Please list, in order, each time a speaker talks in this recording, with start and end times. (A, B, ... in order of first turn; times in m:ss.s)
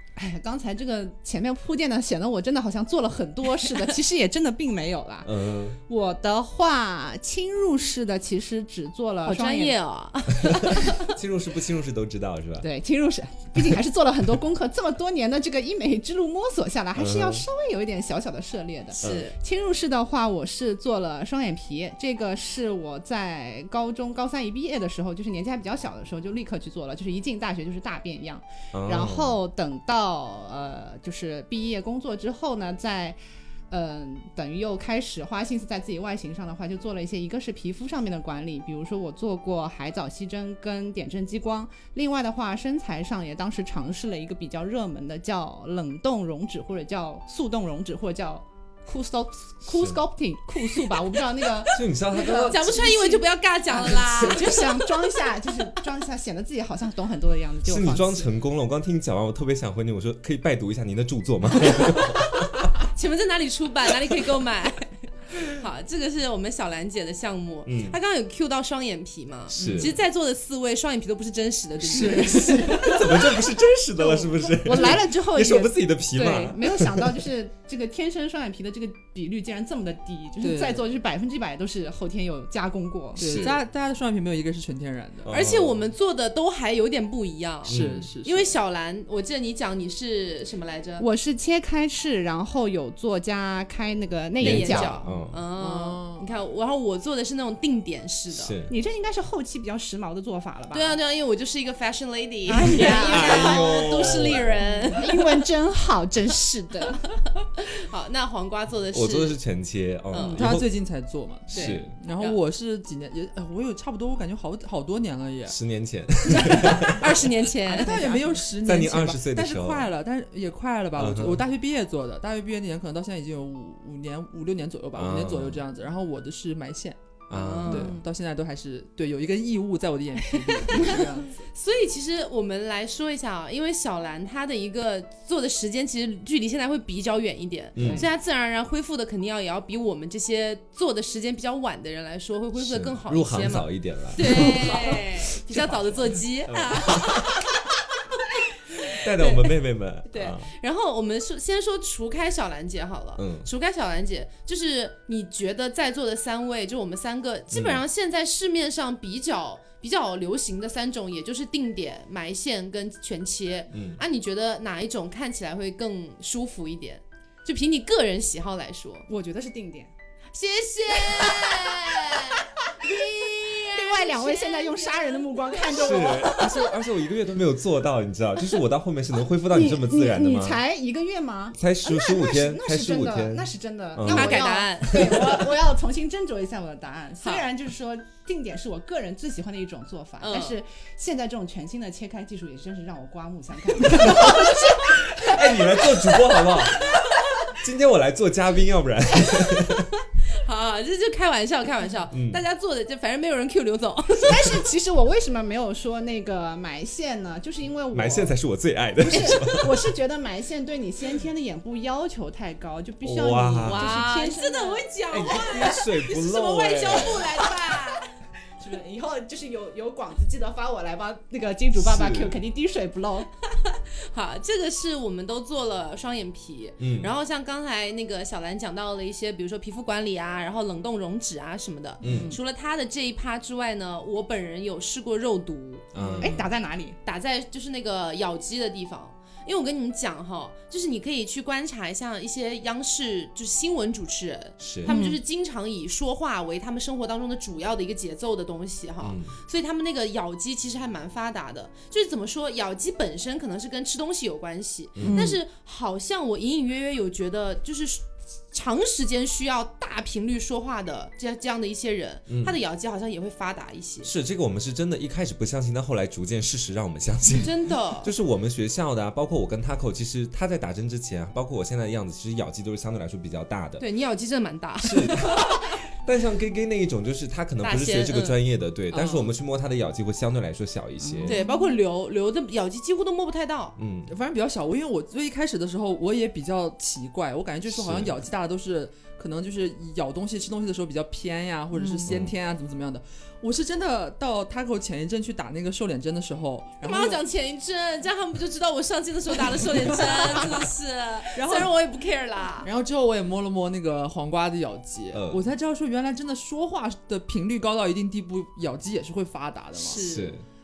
0:00.2-0:09.8 A
0:05.2-0:05.8 B
0:09.2-0:10.8 C
0:10.3-0:12.7 B
0:12.6-0:33.2 A
0:17.0-0:17.4 B
0:19.0-0:19.4 C
0:28.7-0:29.3 B
0:33.7-0:58.3 A
0:49.7-0:50.0 B
0:51.7-0:52.8 B
0:52.3-0:54.8 C
0:57.7-1:02.5 B
1:02.9-1:13.2 C
1:07.7-1:08.0 B
1:09.5-1:09.9 B
1:09.6-1:09.9 D
1:11.8-1:13.0 D
1:12.3-1:17.2 B
1:14.1-1:23.6 A
1:20.4-1:20.8 D
1:23.2-1:25.3 D
1:23.2-1:23.6 B
1:25.2-1:25.9 B
1:25.3-1:31.1 C
1:27.7-1:28.1 B
1:27.7-1:28.5 D
1:31.0-1:35.0 A
1:34.4-1:38.6 C
1:34.4-1:35.4 B
1:35.6-1:36.3 D
1:38.3-1:38.8 B
1:38.7-1:41.0 A
1:40.7-1:45.4 C
1:42.5-1:44.2 A
1:42.7-1:44.5 B
1:44.9-1:47.0 A
1:47.6-1:49.4 C
1:48.9-1:50.7 B
1:50.1-1:50.4 C
1:50.4-1:55.6 D
1:51.5-1:52.4 C
1:51.5-1:51.9 B
1:55.5-1:57.2 B
1:56.3-1:57.9 C
1:56.4-1:57.0 D
1:57.7-1:58.4 A
1:57.7-2:07.0 D
1:58.6-1:59.9 B
2:01.0-2:01.4 B
2:05.0-2:05.6 B
2:07.3-2:07.9 C
2:07.3-2:08.0 B
2:07.7-2:11.4 D
2:10.7-2:27.4 C
2:17.8-2:18.1 B
2:17.8-2:18.0 D
2:22.6-2:24.8 B
2:24.2-2:24.6 D
2:25.5-2:27.4 B
2:28.2-2:29.6 C
2:28.9-2:30.5 B
2:30.1-2:49.1 C
2:33.2-2:33.5 B
2:37.5-2:37.8 B
2:43.7-2:44.0 B
2:49.1-2:49.9 A
2:50.3-2:56.4 C
2:51.1-2:51.8 A
2:52.4-2:56.7 A
2:55.7-3:00.6 B
2:59.5-3:15.6 A
3:01.6-3:05.5 B
3:04.0-3:05.4 C
3:07.2-3:07.5 C
3:10.2-3:10.6 C
3:14.0-3:19.9 B
3:20.4-3:24.5 C
3:22.1-3:22.4 B
3:24.2-3:28.4 A
3:27.9-3:29.8 B
3:29.1-3:34.8 A
3:33.0-3:34.0 B
3:33.7-3:38.1 C
3:35.1-3:37.2 B
3:37.0-3:37.4 A
3:38.6-3:43.3 A
3:41.8-3:42.4 B
3:43.6-3:55.8 C
3:46.8-3:47.1 B
3:52.0-3:52.4 B
3:52.0-3:52.4 D
3:55.9-3:56.5 B
3:56.0-3:56.3 D
3:56.2-3:57.0 A
3:57.0-4:24.1 C
4:04.6-4:05.0 B
4:04.8-4:05.2 A
4:09.0-4:09.4 B
4:15.0-4:15.4 A
4:22.3-4:22.6 B
4:24.0-4:33.8 B
4:27.3-4:28.1 C
4:33.8-4:35.6 C
4:34.8-4:41.4 B
4:37.6-4:38.4 C
4:38.9-4:39.3 D
4:41.0-4:41.7 A
4:41.2-4:43.8 C
4:43.8-4:44.1 B
4:44.1-4:57.2 D
4:47.7-4:48.2 B
4:51.8-4:52.1 A
4:52.1-4:52.3 B
4:56.8-5:02.7 C
4:59.8-5:00.6 D
5:01.4-5:01.7 D
5:02.6-5:10.1 D
5:05.1-5:05.4 B
5:09.8-5:10.4 C
5:10.0-5:10.4 B